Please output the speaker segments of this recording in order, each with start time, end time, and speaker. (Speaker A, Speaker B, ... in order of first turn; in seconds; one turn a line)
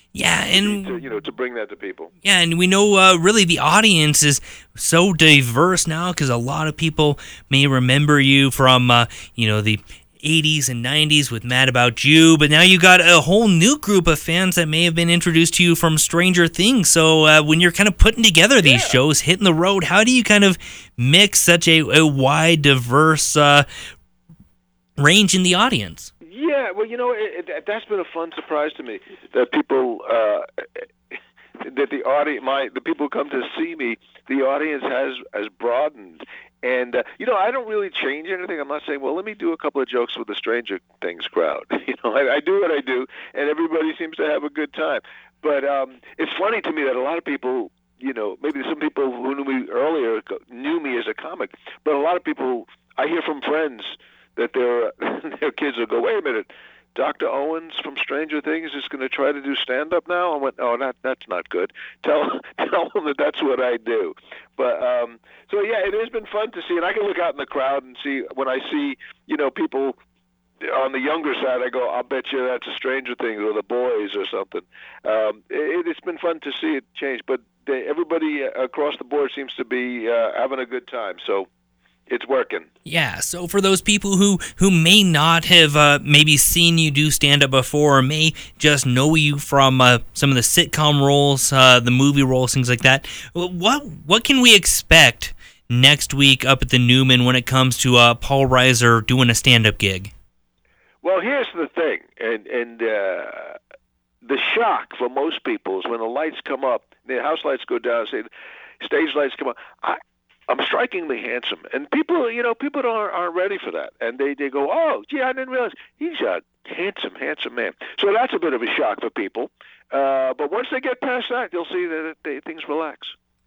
Speaker A: 0.1-0.9
Speaker B: 0.5-2.1
Speaker A: 2.2-23.7
Speaker B: 18.6-19.0
Speaker A: 25.0-26.1
Speaker B: 26.2-30.9
Speaker B: 31.6-70.0
Speaker B: 70.6-81.5
Speaker B: 82.1-82.7
Speaker A: 82.9-100.1
Speaker B: 101.0-103.6
Speaker B: 104.2-108.3
Speaker B: 108.8-123.2